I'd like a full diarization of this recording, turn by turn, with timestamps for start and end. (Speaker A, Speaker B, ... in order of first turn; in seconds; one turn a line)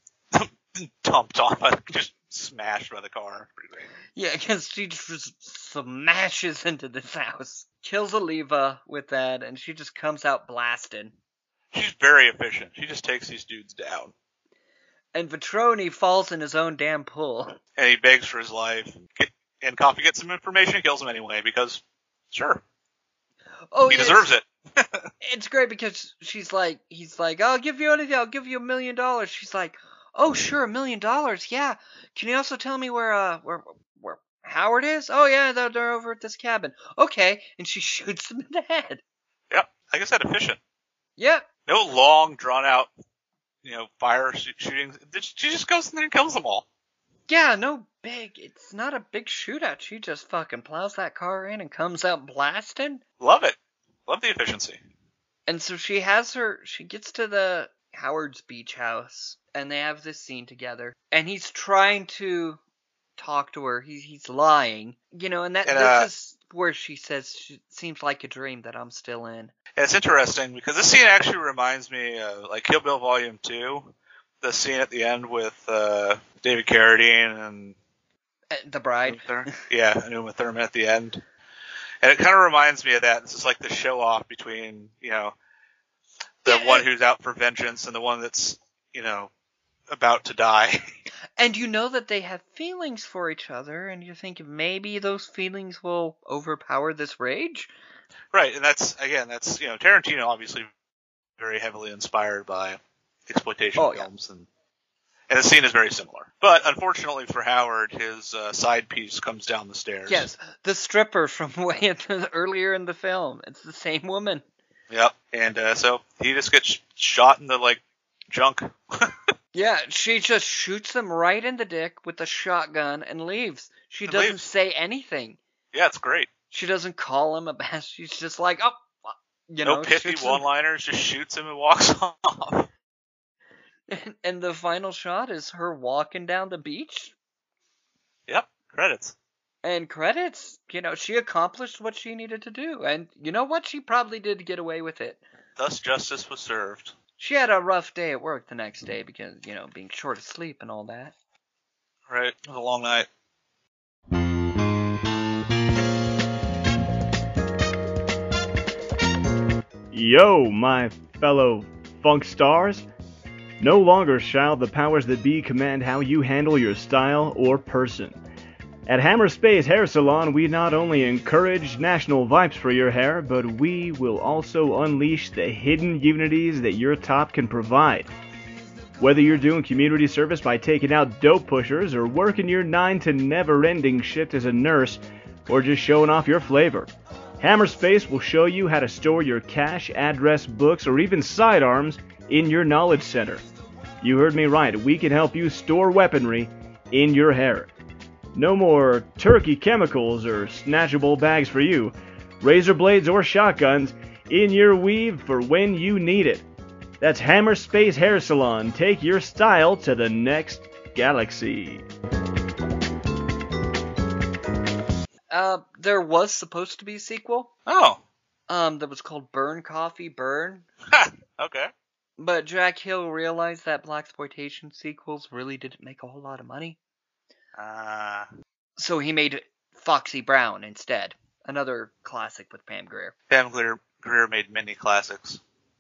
Speaker A: 0.3-3.9
Speaker B: 4.1-11.1
Speaker A: 11.7-14.1
Speaker B: 15.1-17.6
Speaker A: 17.8-21.8
Speaker A: 22.3-22.6
Speaker B: 23.7-24.3
Speaker A: 23.9-25.1
Speaker B: 25.2-39.0
Speaker A: 39.5-40.6
Speaker B: 41.2-41.5
Speaker A: 41.7-42.9
Speaker A: 43.6-46.6
Speaker B: 47.3-53.0
Speaker A: 53.2-53.5
Speaker A: 54.1-54.8
Speaker B: 55.5-62.6
Speaker B: 63.2-69.5
Speaker A: 65.7-66.1
Speaker A: 69.8-77.8
Speaker B: 78.5-79.6
Speaker A: 79.0-81.2
Speaker A: 82.0-85.3
Speaker A: 86.4-89.3
Speaker B: 86.5-86.8
Speaker A: 89.9-90.8
Speaker B: 91.4-97.7
Speaker A: 98.3-100.7
Speaker A: 101.4-104.5
Speaker B: 103.8-104.1
Speaker A: 105.3-110.3
Speaker B: 110.1-114.4
Speaker A: 114.9-119.1
Speaker B: 119.5-125.4
Speaker A: 124.1-124.4
Speaker A: 125.7-126.3
Speaker B: 126.5-130.4
Speaker A: 129.6-132.7
Speaker B: 133.9-137.1
Speaker A: 138.3-139.2
Speaker B: 139.6-145.2
Speaker A: 145.6-146.9
Speaker B: 147.2-151.1
Speaker A: 152.1-153.1
Speaker C: 159.9-162.8
Speaker C: 163.6-168.2
Speaker C: 168.9-178.1
Speaker C: 179.0-186.9
Speaker C: 187.4-193.4
Speaker C: 194.0-197.7
Speaker C: 198.3-206.4
Speaker C: 207.0-211.8
Speaker B: 215.3-217.5
Speaker A: 217.7-218.0
Speaker B: 218.5-220.7
Speaker A: 220.9-221.7
Speaker B: 222.2-226.8
Speaker A: 227.6-228.3
Speaker B: 228.8-233.1
Speaker A: 233.3-235.4